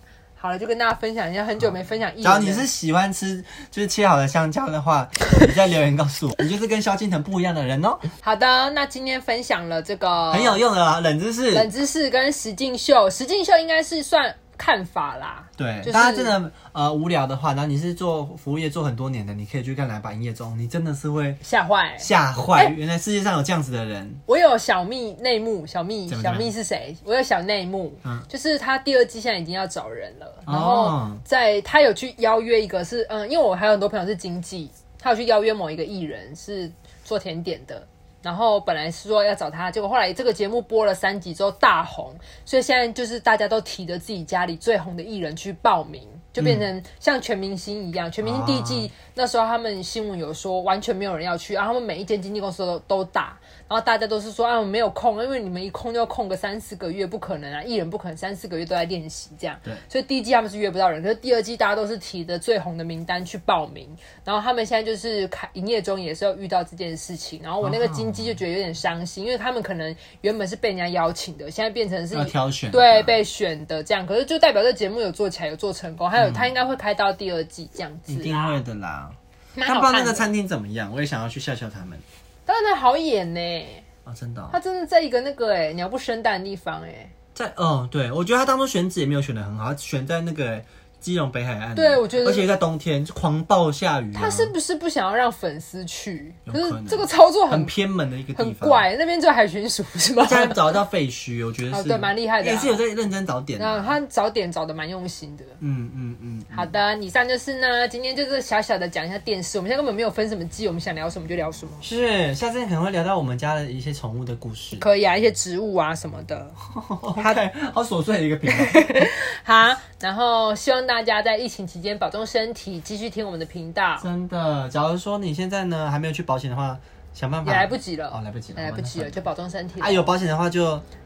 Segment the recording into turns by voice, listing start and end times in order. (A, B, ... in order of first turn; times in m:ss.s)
0:00.4-0:02.6 A
0:01.6-0:08.1 B
0:08.2-0:10.6 A
0:10.3-0:11.7 B
0:11.5-0:16.4 A
0:15.6-0:21.4 B
0:21.4-0:22.7 A
0:22.0-0:24.2 B
0:24.3-1:18.6 A
0:26.1-0:26.5 B
0:30.5-0:31.2 B
0:46.4-0:46.6 B
0:48.2-0:48.9 B
1:07.6-1:08.4 B
1:12.1-1:13.2 B
1:16.2-1:16.5 B
1:18.1-1:22.0 B
1:19.5-1:20.3 A
1:22.5-1:23.8 A
1:24.0-1:24.6 B
1:24.5-1:27.1 A
1:27.3-1:34.5 B
1:31.7-1:32.5 A
1:34.1-1:37.7 A
1:36.4-1:38.8 B
1:38.4-1:40.8 A
1:40.2-1:44.0 B
1:41.7-1:42.8 A
1:43.6-1:45.6 A
1:45.6-1:46.7 B
1:46.5-1:51.8 A
1:51.8-1:54.9 B
1:54.8-1:56.6 A
1:56.8-1:59.1 B
1:57.2-1:57.4 A
1:58.5-2:04.0 A
2:04.0-2:09.2 B
2:07.4-2:10.1 A
2:09.8-2:10.8 B